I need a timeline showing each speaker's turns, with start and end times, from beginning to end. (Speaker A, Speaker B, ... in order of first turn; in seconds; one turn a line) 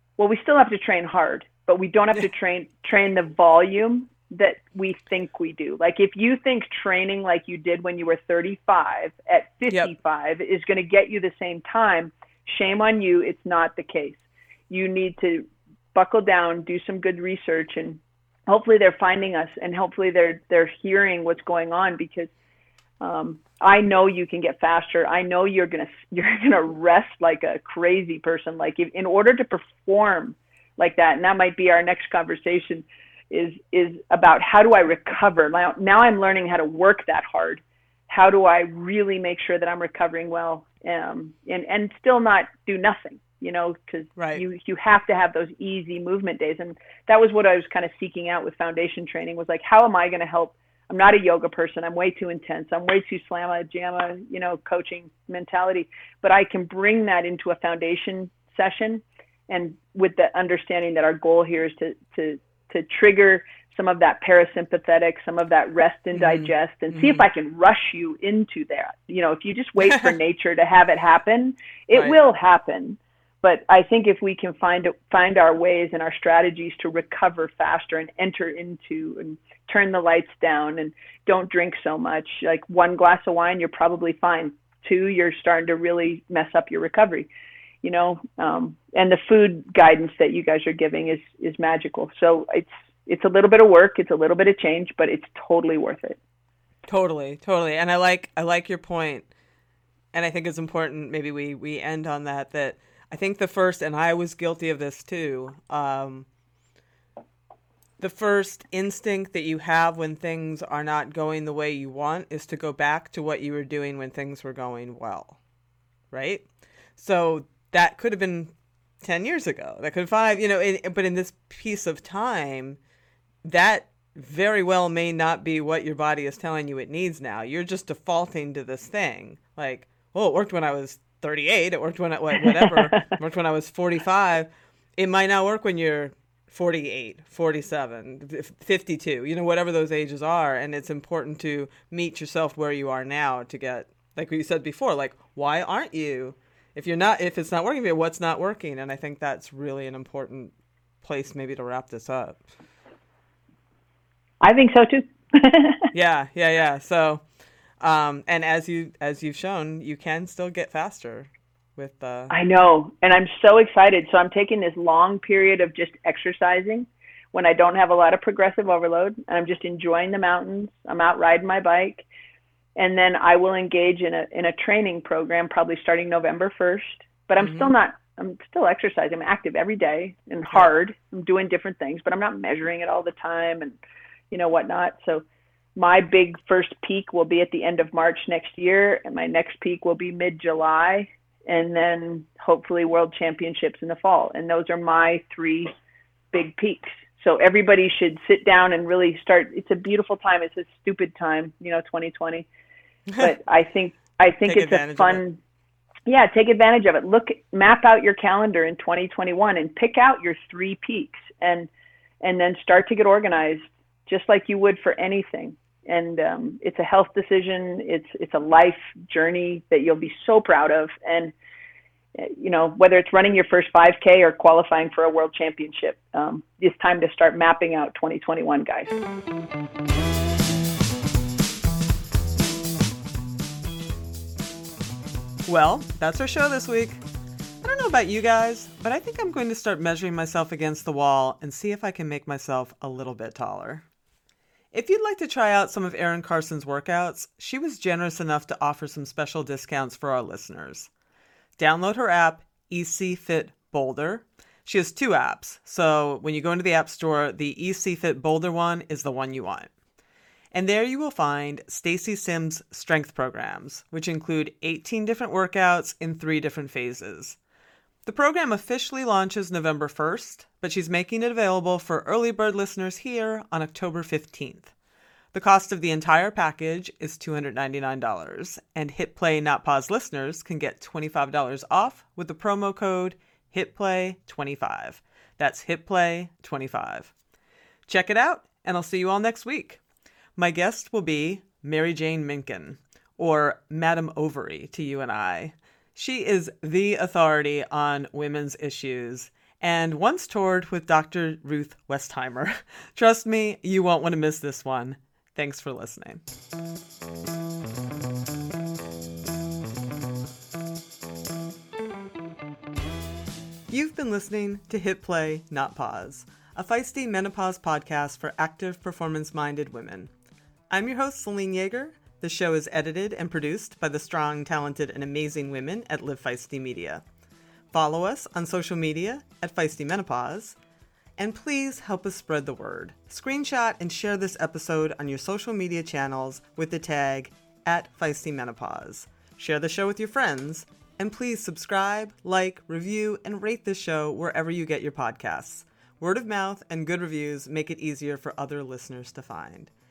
Speaker A: 0.2-22.3
Speaker A: 23.0-87.3
Speaker B: 44.2-44.4
Speaker B: 66.2-67.2
Speaker A: 87.8-96.2
Speaker B: 96.9-99.3
Speaker B: 100.1-106.3
Speaker B: 108.0-115.4
Speaker B: 116.1-116.5
Speaker B: 117.0-122.8
Speaker B: 123.4-150.5
Speaker A: 132.4-133.1
Speaker B: 151.0-152.4
Speaker A: 154.4-155.9
Speaker B: 155.9-157.2
Speaker B: 157.8-162.3
Speaker A: 162.3-172.1
Speaker A: 172.8-183.8
Speaker B: 177.4-177.7
Speaker A: 184.3-185.2
Speaker A: 185.8-195.7
Speaker A: 196.3-202.5
Speaker A: 203.2-205.4
Speaker B: 204.4-205.2
Speaker A: 206.1-211.7
Speaker A: 212.2-221.3
Speaker A: 222.2-229.0
Speaker B: 235.5-237.0
Speaker B: 237.6-243.8
Speaker B: 244.7-250.9
Speaker B: 251.6-259.7
Speaker B: 260.5-267.4
Speaker B: 268.1-274.7
Speaker B: 275.3-287.1
Speaker B: 287.9-289.8
Speaker B: 290.4-306.2
Speaker B: 313.7-320.1
Speaker B: 320.7-327.0
Speaker B: 327.7-330.6
Speaker B: 331.2-349.7